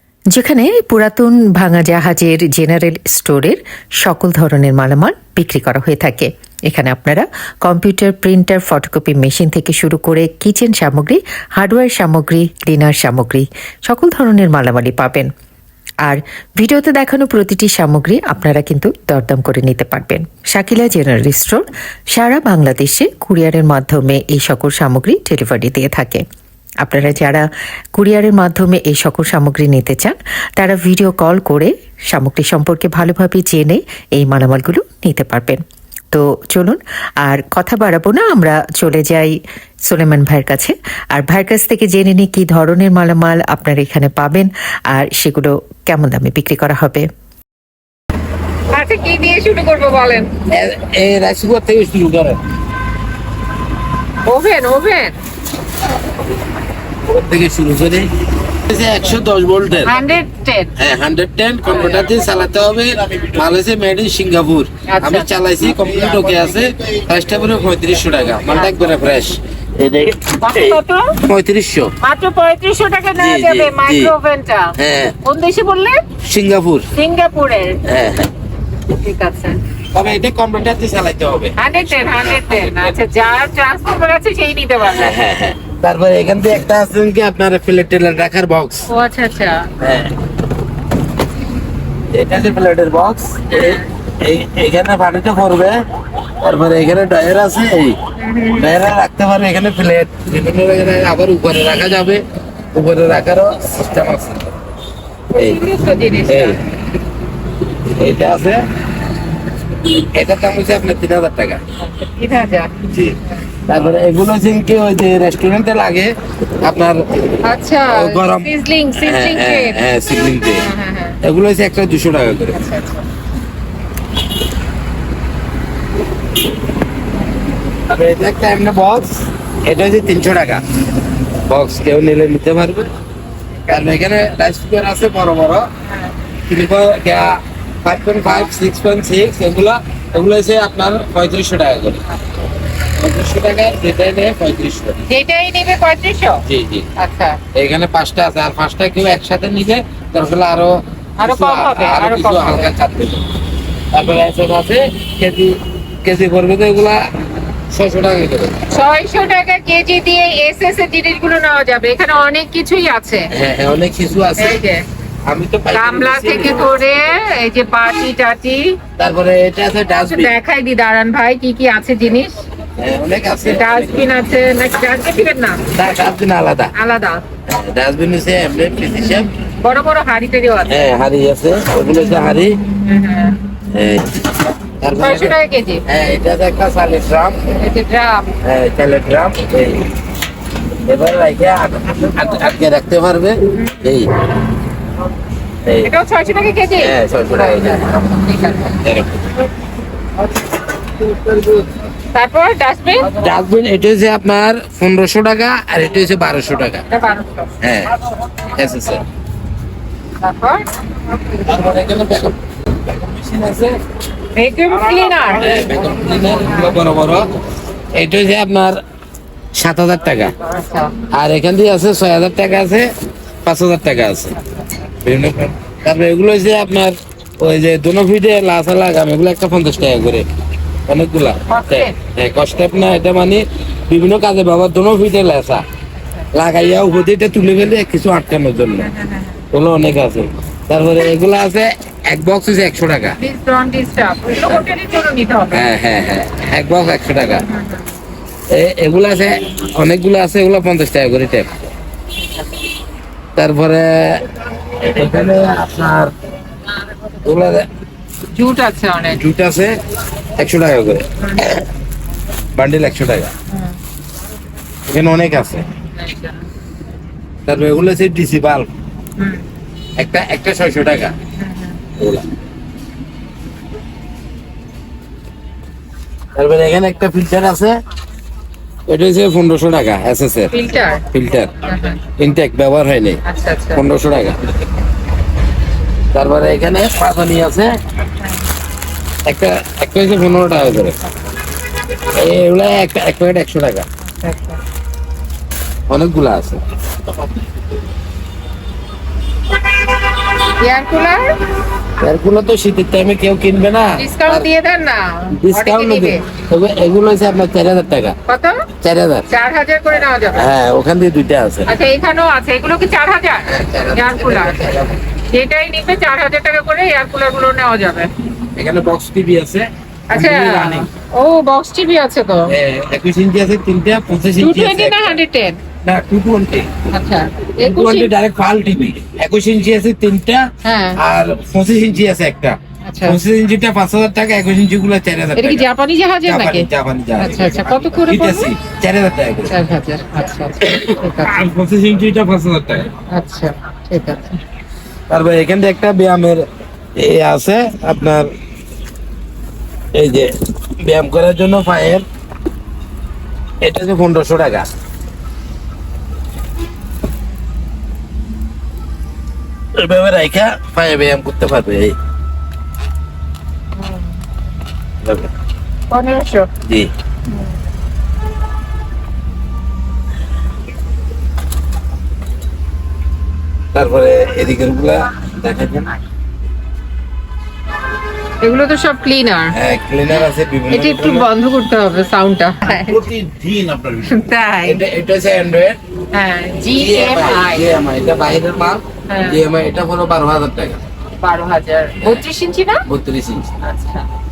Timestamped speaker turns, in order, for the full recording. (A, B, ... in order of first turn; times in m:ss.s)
0:00.3-0:15.3 A
0:16.0-0:26.2 A
0:26.8-0:47.1 A
0:48.7-0:50.3 B
0:50.5-0:52.4 C
0:54.2-0:55.2 B
0:57.0-0:58.1 C
0:58.7-1:00.0 C
0:59.8-1:00.7 B
1:00.8-1:11.9 C
1:04.9-1:05.3 B
1:10.4-1:11.2 B
1:12.0-1:16.0 B
1:13.2-1:14.1 C
1:14.8-1:15.1 C
1:16.2-1:16.9 C
1:16.9-1:17.8 B
1:17.8-1:18.3 C
1:19.0-1:19.6 B
1:19.9-1:22.9 C
1:21.6-1:25.2 B
1:24.9-1:28.9 C
1:28.9-1:29.7 B
1:29.8-1:30.1 C
1:32.1-1:35.8 C
1:33.5-1:33.8 B
1:36.4-1:38.0 C
1:38.2-1:38.7 B
1:38.6-1:42.2 C
1:42.7-1:44.6 C
1:45.3-1:46.6 B
1:46.3-1:46.6 C
1:47.9-1:48.6 C
1:49.9-1:51.6 C
1:51.8-1:52.7 B
1:52.9-1:57.4 C
1:53.2-1:53.5 B
1:57.4-1:59.8 B
1:57.9-2:00.6 C
2:00.6-2:01.2 B
2:01.2-2:02.6 C
2:02.5-2:03.0 B
2:07.9-2:10.6 C
2:11.5-2:12.9 C
2:13.7-2:15.7 C
2:16.5-2:22.0 C
2:22.9-2:25.0 C
2:25.1-2:26.4 B
2:26.5-2:26.9 C
2:27.0-2:27.4 B
2:27.5-2:33.2 C
2:31.2-2:32.7 B
2:33.9-2:37.0 C
2:37.7-2:38.6 C
2:38.7-2:43.3 B
2:43.3-2:44.6 C
2:44.4-2:44.8 B
2:45.2-2:46.8 C
2:45.7-2:48.8 B
2:49.0-2:50.3 C
2:49.9-2:52.4 B
2:52.8-2:54.0 C
2:53.4-2:55.6 B
2:55.7-2:56.7 C
2:56.7-2:57.2 B
2:57.5-2:59.3 C
2:59.6-3:00.8 B
3:00.7-3:02.6 C
3:02.7-3:03.4 B
3:03.7-3:05.3 C
3:04.9-3:05.8 B
3:05.8-3:07.4 C
3:07.5-3:08.3 B
3:08.4-3:09.9 C
3:10.8-3:14.1 C
3:13.5-3:14.0 B
3:15.6-3:15.9 C
3:15.8-3:18.8 B
3:16.8-3:18.1 C
3:18.8-3:19.3 C
3:21.0-3:21.7 C
3:22.1-3:23.1 B
3:23.0-3:26.8 C
3:26.9-3:27.5 B
3:27.6-3:29.0 C
3:30.2-3:30.7 B
3:31.4-3:33.8 C
3:34.4-3:35.7 B
3:35.1-3:37.3 C
3:37.9-3:38.8 C
3:39.5-3:40.3 C
3:40.4-3:40.9 B
3:41.1-3:42.9 C
3:43.4-3:44.4 C
3:44.4-3:44.7 B
3:45.0-3:50.3 C
3:50.9-3:55.6 C
3:51.5-3:52.0 B
3:56.0-3:56.3 B
3:56.3-3:58.9 C
3:58.8-3:59.4 B
3:59.5-4:03.2 C
4:03.2-4:05.7 B
4:05.5-4:07.4 C
4:07.4-4:07.8 B
4:08.5-4:11.5 C
4:13.4-4:16.1 C
4:17.2-4:17.7 C
4:18.3-4:19.2 B
4:19.1-4:19.8 C
4:20.4-4:21.7 C
4:21.2-4:21.5 B
4:22.5-4:23.3 C
4:23.5-4:23.8 B
4:24.9-4:25.6 C
4:26.0-4:26.3 B
4:27.4-4:28.7 C
4:29.2-4:29.4 B
4:30.0-4:31.1 C
4:31.4-4:31.8 B
4:32.0-4:32.2 C
4:36.3-4:37.8 C
4:38.9-4:43.2 C
4:40.5-4:41.0 B
4:41.6-4:42.0 B
4:43.2-4:43.8 B
4:43.7-4:44.5 C
4:46.1-4:47.8 C
4:49.2-4:51.0 C
4:52.1-4:53.8 C
4:54.0-4:54.6 B
4:55.9-4:56.6 C
5:00.6-5:01.4 B
5:02.0-5:04.5 C
5:03.9-5:06.2 B
5:05.4-5:08.2 C
5:08.3-5:08.6 B
5:08.8-5:09.3 C
5:09.3-5:10.5 B
5:10.3-5:11.7 C
5:11.7-5:14.7 B
5:13.5-5:15.0 C
5:15.3-5:18.1 B
5:18.6-5:20.9 C
5:20.1-5:22.5 B
5:22.5-5:25.2 C
5:24.4-5:25.6 B
5:25.8-5:26.7 C
5:26.9-5:28.1 B
5:27.6-5:35.6 C
5:30.6-5:31.0 B
5:32.8-5:33.2 B
5:35.4-5:38.5 B
5:36.2-5:39.7 C
5:39.5-5:41.4 B
5:40.6-5:42.9 C
5:43.1-5:44.4 B
5:45.1-5:48.3 C
5:49.9-5:52.0 C
5:53.6-5:54.7 C
5:59.7-6:02.0 C
6:03.8-6:04.2 B
6:05.0-6:05.3 C
6:05.9-6:06.5 B
6:06.6-6:06.9 C
6:13.7-6:15.9 C
6:18.4-6:19.6 B
6:19.5-6:21.3 C
6:20.7-6:23.0 B
6:22.7-6:25.8 C
6:24.0-6:24.8 B
6:26.1-6:27.7 B
6:26.7-6:30.8 C
6:29.1-6:29.4 B
6:31.2-6:32.8 B
6:32.8-6:33.5 C
6:33.6-6:34.0 B